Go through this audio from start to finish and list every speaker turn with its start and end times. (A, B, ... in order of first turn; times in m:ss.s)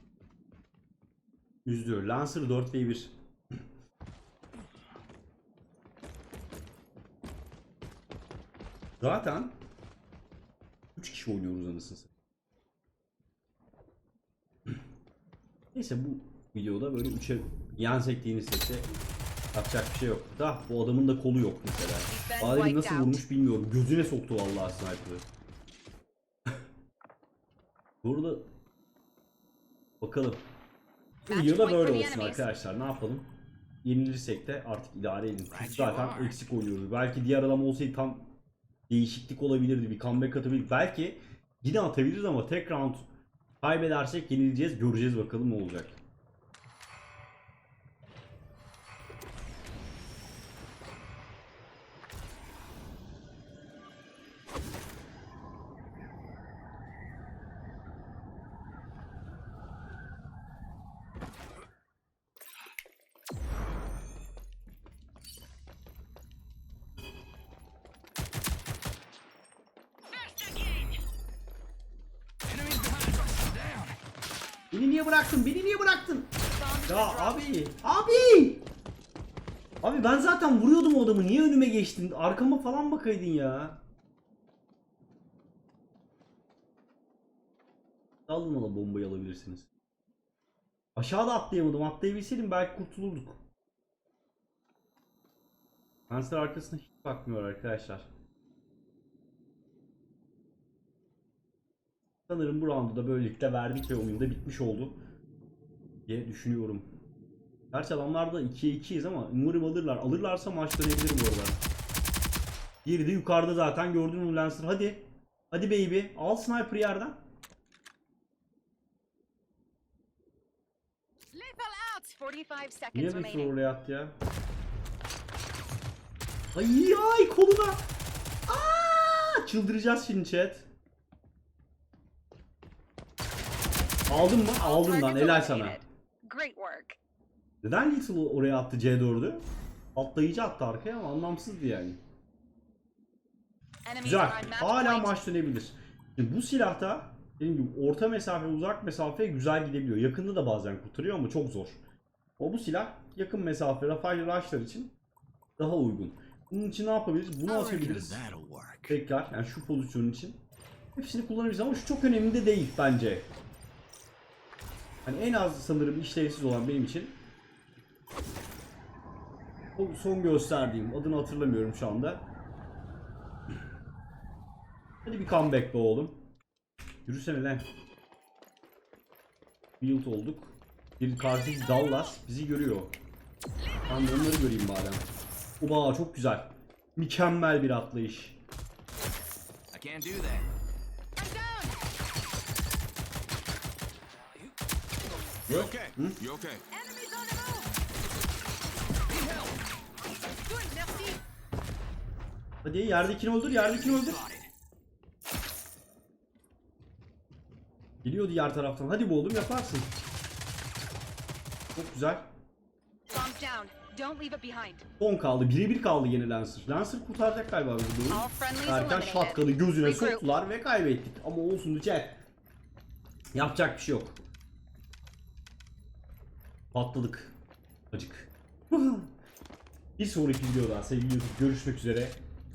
0:01.6-0:03.1 A
0:09.0-0:09.5 A
0:11.0-0:12.1 A
0:15.7-0:18.9 A
0:19.5-0:25.2 A
0:22.1-0:23.2 B
0:28.0-0:28.5 A
0:30.0-0:30.4 A
0:31.2-0:32.5 B
0:31.3-0:33.3 A
0:33.8-0:38.3 A
0:35.5-0:36.4 C
0:38.9-0:43.0 A
0:43.6-0:46.0 A
1:12.4-1:14.0 C
1:14.7-1:16.3 A
1:16.4-1:17.5 B
1:16.9-1:18.6 A
1:19.8-1:23.8 A
1:28.3-1:29.7 A
1:31.0-1:33.4 A
1:36.1-1:38.1 A
1:42.3-1:45.0 A
1:46.1-1:46.9 A
1:47.7-1:51.6 A
1:52.8-1:57.2 A
2:01.3-2:03.5 B
2:02.9-2:04.2 A
2:06.5-2:07.8 A
2:08.5-2:10.7 A
2:14.1-2:15.8 A
2:14.4-2:17.0 B
2:17.6-2:22.0 A
2:23.8-2:25.2 B
2:24.0-2:31.8 A
2:32.4-2:34.9 A
2:35.6-2:38.2 A
2:37.5-2:39.0 C
2:38.9-2:40.4 A
2:41.0-2:43.3 A
2:45.0-2:47.2 A
2:49.8-2:52.2 A
2:55.0-2:56.2 A
2:57.0-2:57.7 A
2:59.8-3:02.9 A
3:03.8-3:05.0 A
3:05.6-3:08.4 A
3:09.7-3:10.5 C
3:11.2-3:11.7 B
3:15.5-3:16.2 A
3:15.5-3:16.6 C
3:16.7-3:17.7 B
3:19.1-3:19.6 C
3:20.5-3:21.2 B
3:22.6-3:24.2 A
3:23.5-3:24.5 C
3:28.0-3:29.9 A
3:31.7-3:32.3 A
3:33.1-3:34.8 B
3:35.0-3:42.2 A
3:38.1-3:40.2 B
3:43.3-3:44.2 A
3:46.7-3:47.4 A
3:47.9-3:49.1 A
3:50.0-3:52.2 A